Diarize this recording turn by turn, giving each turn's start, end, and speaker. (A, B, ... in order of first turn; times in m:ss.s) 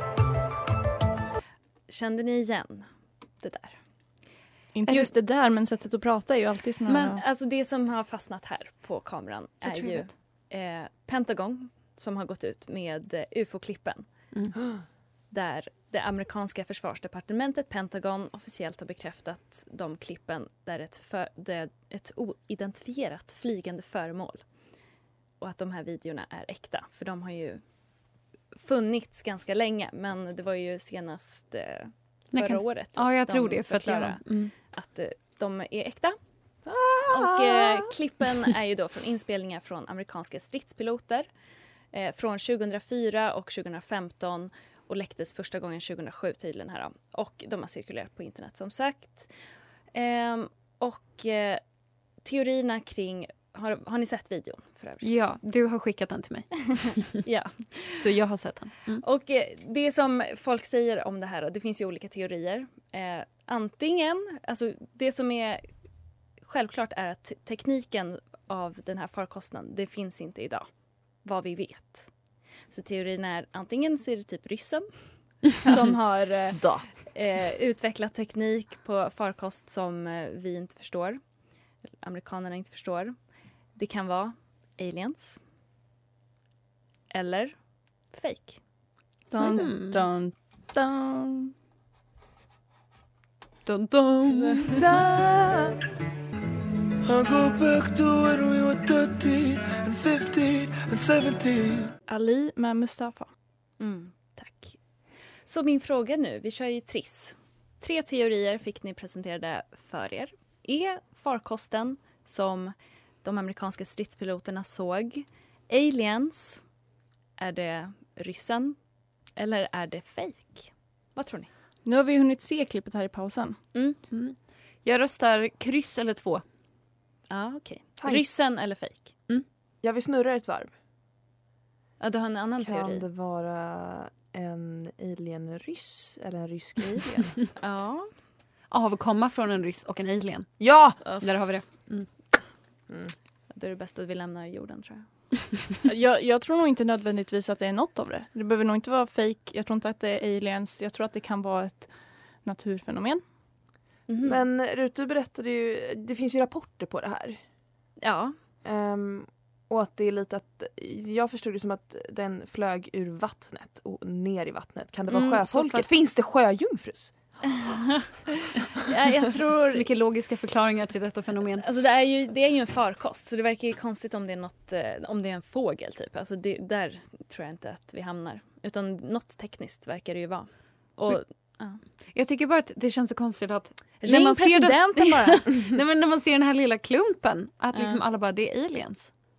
0:01.9-0:04.3 A
0:04.7-0:07.2 B
0:06.9-0:14.1 A
0:09.6-0:10.1 C
0:15.3-0:24.7 A
0:25.4-0:27.6 A
0:28.5-0:36.2 A
0:32.3-0:34.5 C
0:36.6-0:37.8 D
0:37.1-0:41.3 A
0:41.9-0:49.4 A
0:49.9-0:51.6 A
0:52.2-0:55.2 A
0:55.0-0:56.9 C
0:57.2-0:58.0 A
0:57.9-0:59.0 C
0:59.0-1:05.7 A
1:06.4-1:12.1 A
1:12.7-1:25.4 A
1:16.5-1:16.9 D
1:27.1-1:28.6 A
1:29.3-1:31.5 B
1:29.4-1:30.1 C
1:33.6-1:34.8 C
1:34.7-1:35.8 D
1:37.1-1:41.7 E
1:42.1-1:43.3 B
1:43.8-1:44.8 A
1:45.4-1:56.6 A
1:57.4-1:58.8 A
1:59.4-2:01.5 A
2:01.8-2:03.6 B
2:04.1-2:06.4 C
2:07.3-2:09.1 A
2:08.0-2:08.2 D
2:09.8-2:10.7 D
2:12.0-2:13.0 A
2:12.6-2:17.5 D
2:17.6-2:18.1 A
2:18.7-2:22.1 C
2:20.6-2:21.0 D
2:21.0-2:21.9 A
2:23.5-2:25.3 A
2:25.8-2:33.2 B
2:34.1-2:34.4 A
2:34.2-2:37.4 D
2:38.0-2:38.4 A
2:38.6-2:47.6 D
2:45.1-2:45.9 A
2:47.6-2:48.0 A
2:48.8-2:49.9 A
2:49.7-2:51.6 C
2:51.6-3:01.8 A
3:02.1-3:09.1 C
3:04.0-3:05.8 A
3:07.7-3:08.0 A